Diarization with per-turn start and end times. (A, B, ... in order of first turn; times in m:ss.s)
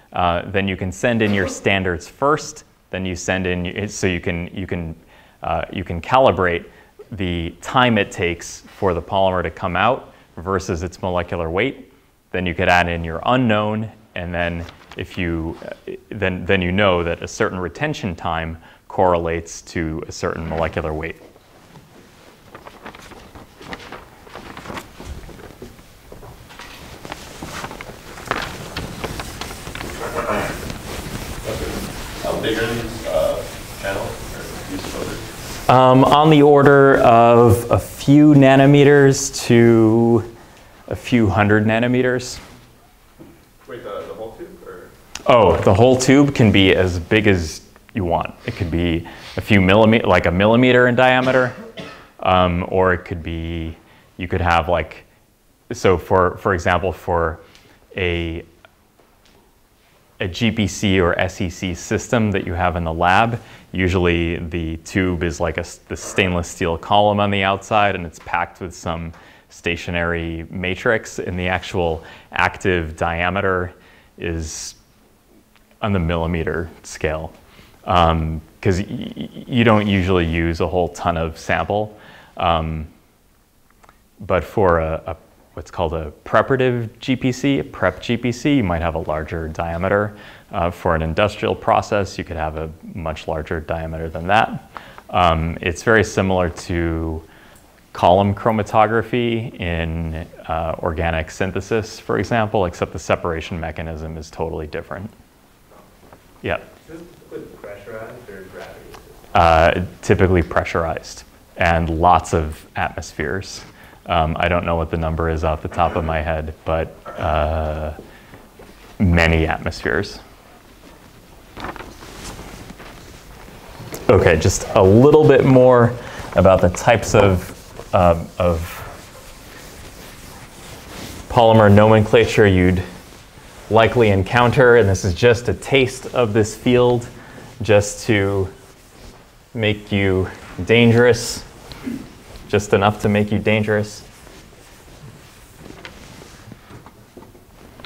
0:00.1-0:21.2 A
0:31.4-0:35.2 B
0:35.7-0:40.3 A
0:40.9-0:42.4 A
0:43.6-0:44.9 B
0:45.3-0:51.6 A
0:52.2-0:55.1 A
0:55.7-0:57.4 A
0:57.9-0:58.5 A
1:00.2-1:14.8 A
1:15.8-1:17.3 A
1:17.9-1:22.9 A
1:24.2-1:37.3 A
1:37.9-1:45.1 A
1:46.8-1:49.1 C
1:49.3-1:58.0 A
1:59.0-2:00.2 A
2:04.1-2:08.9 A
2:11.3-2:12.8 A
2:13.7-2:18.5 A
2:19.5-2:21.5 A
2:22.5-2:24.0 A